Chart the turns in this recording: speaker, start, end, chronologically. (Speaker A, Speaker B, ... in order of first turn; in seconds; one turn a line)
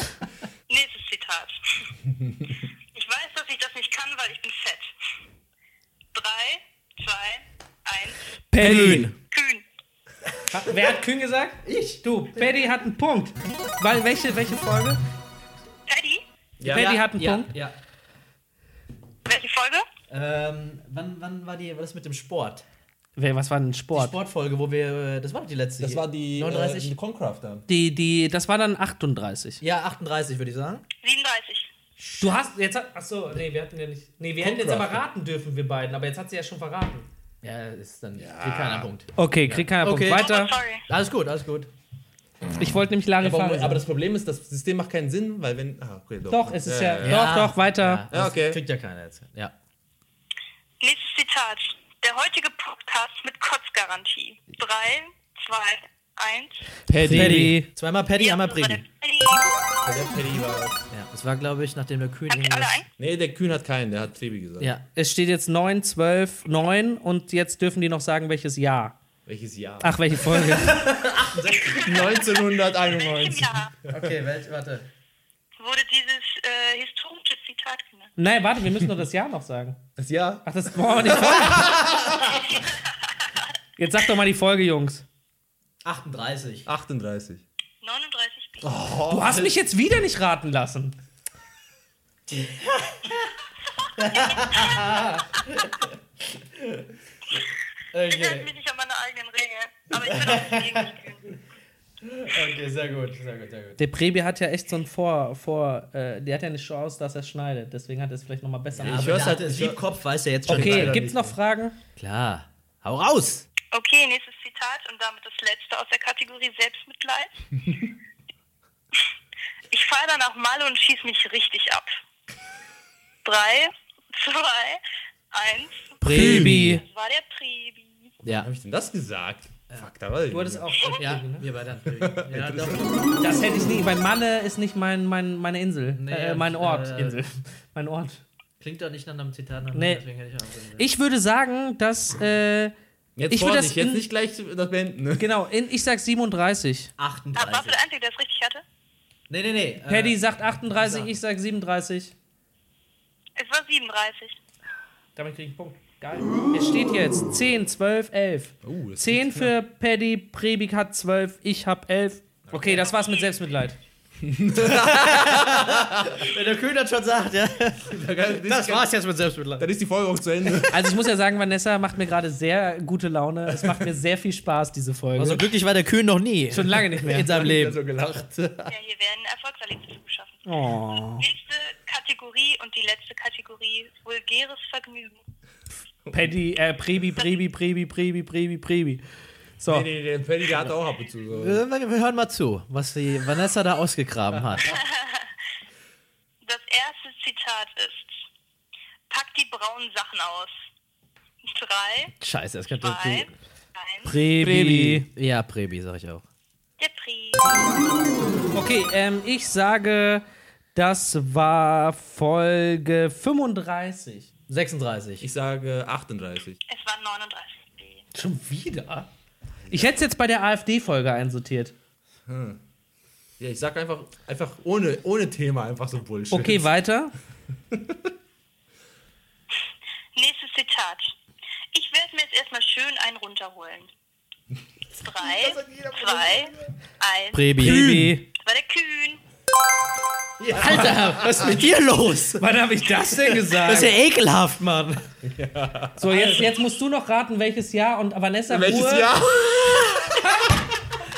Speaker A: 0.7-1.9
Speaker A: 2.9-4.9
Speaker A: 6.1-8.2
Speaker B: 8.5-9.1
Speaker C: 8.6-9.1
Speaker D: 8.6-9.1
Speaker A: 9.3-9.6
Speaker B: 10.5-15.0
Speaker D: 11.7-12.5
Speaker A: 15.9-16.2
Speaker C: 16.6-16.9
Speaker B: 16.7-17.5
Speaker D: 16.7-17.8
Speaker A: 19.3-19.9
Speaker D: 20.1-22.6
Speaker B: 23.2-24.2
Speaker D: 23.9-26.9
Speaker C: 25.8-27.7
Speaker B: 27.7-29.6
Speaker D: 29.6-30.8
Speaker A: 31.0-31.7
Speaker D: 32.0-32.4
Speaker B: 32.2-37.1
Speaker C: 34.4-35.0
Speaker D: 37.4-40.3
Speaker C: 38.2-38.9
Speaker B: 39.2-40.5
Speaker A: 40.0-40.8
Speaker D: 40.9-41.7
Speaker B: 42.6-43.8
Speaker C: 43.2-47.3
Speaker B: 46.3-48.0
Speaker D: 47.0-49.5
Speaker C: 48.1-48.6
Speaker A: 50.8-56.7
Speaker C: 56.9-57.6
Speaker B: 56.9-57.7
Speaker D: 57.0-58.8
Speaker A: 58.2-59.5
Speaker C: 59.8-60.9
Speaker D: 60.9-62.8
Speaker A: 62.3-62.9
Speaker C: 63.0-64.8
Speaker B: 65.0-69.0
Speaker C: 69.3-70.9
Speaker B: 69.8-70.8
Speaker D: 70.7-72.2
Speaker C: 71.7-74.2
Speaker A: 72.8-73.7
Speaker D: 73.9-74.9
Speaker A: 75.6-78.1
Speaker B: 78.2-79.8
Speaker C: 80.0-80.5
Speaker B: 80.5-81.8
Speaker C: 81.0-82.4
Speaker A: 82.5-82.8
Speaker B: 83.8-85.0
Speaker D: 85.8-86.7
Speaker C: 86.7-87.4
Speaker A: 87.8-88.7
Speaker C: 88.6-89.5
Speaker B: 89.1-91.0
Speaker D: 92.3-93.3
Speaker D: 94.0-95.9
Speaker D: 97.9-98.5
Speaker A: 98.1-101.3
Speaker D: 100.0-100.9
Speaker D: 102.0-103.8
Speaker B: 103.8-109.3
Speaker D: 108.7-111.1
Speaker C: 108.8-109.9
Speaker C: 110.4-111.3
Speaker B: 110.5-111.8
Speaker D: 112.0-113.5
Speaker A: 113.7-117.4
Speaker A: 119.7-122.0
Speaker A: 123.2-124.8
Speaker A: 125.3-128.1
Speaker D: 126.0-126.8
Speaker B: 126.0-126.8
Speaker C: 126.1-126.6
Speaker C: 128.4-130.7
Speaker B: 130.3-131.5
Speaker D: 130.9-133.0
Speaker C: 131.9-133.0
Speaker B: 133.2-138.2
Speaker D: 135.9-137.2
Speaker D: 138.6-140.9
Speaker B: 139.7-140.0
Speaker B: 140.8-142.7
Speaker C: 143.2-145.3
Speaker B: 143.3-144.0
Speaker B: 145.2-146.9
Speaker D: 147.0-147.8
Speaker A: 147.3-148.6
Speaker D: 149.3-150.2
Speaker B: 149.9-152.1
Speaker D: 150.8-151.1
Speaker A: 153.4-154.4
Speaker B: 155.2-163.8
Speaker C: 158.6-159.5
Speaker D: 162.5-162.9
Speaker A: 162.9-163.3
Speaker C: 164.2-166.3
Speaker D: 164.6-169.7
Speaker C: 167.8-169.0
Speaker C: 169.6-171.0
Speaker B: 170.7-175.5
Speaker C: 173.5-173.9
Speaker D: 175.2-177.8
Speaker B: 176.5-177.4
Speaker C: 177.1-178.7
Speaker A: 178.7-180.4
Speaker B: 180.5-181.2
Speaker A: 181.2-185.2
Speaker C: 186.1-186.3
Speaker B: 186.1-189.0
Speaker B: 189.6-189.9
Speaker C: 189.7-191.6
Speaker D: 191.3-194.8
Speaker A: 194.6-195.3
Speaker A: 196.4-198.2
Speaker A: 199.1-200.5
Speaker A: 201.4-202.1
Speaker D: 202.2-203.3
Speaker A: 202.8-204.1
Speaker B: 204.1-205.1
Speaker C: 204.4-205.1
Speaker D: 205.1-206.2
Speaker A: 206.8-207.7
Speaker B: 208.5-210.2
Speaker B: 210.8-214.3
Speaker D: 214.5-215.3
Speaker C: 215.2-216.6
Speaker A: 216.7-218.1
Speaker B: 218.1-219.1
Speaker B: 219.7-221.7
Speaker C: 222.3-222.6
Speaker C: 223.4-226.7
Speaker B: 226.3-227.2
Speaker C: 227.7-228.0
Speaker A: 230.2-231.2
Speaker A: 231.7-233.9
Speaker A: 234.9-237.8
Speaker C: 235.2-236.7
Speaker D: 237.3-238.1
Speaker B: 237.6-238.3
Speaker C: 237.6-238.2
Speaker A: 238.3-239.2
Speaker D: 240.4-242.4
Speaker C: 240.6-241.5
Speaker B: 240.7-241.2
Speaker B: 242.4-244.0
Speaker D: 243.5-245.1
Speaker C: 245.2-246.5
Speaker B: 246.0-249.1
Speaker C: 248.5-250.3
Speaker B: 250.2-250.6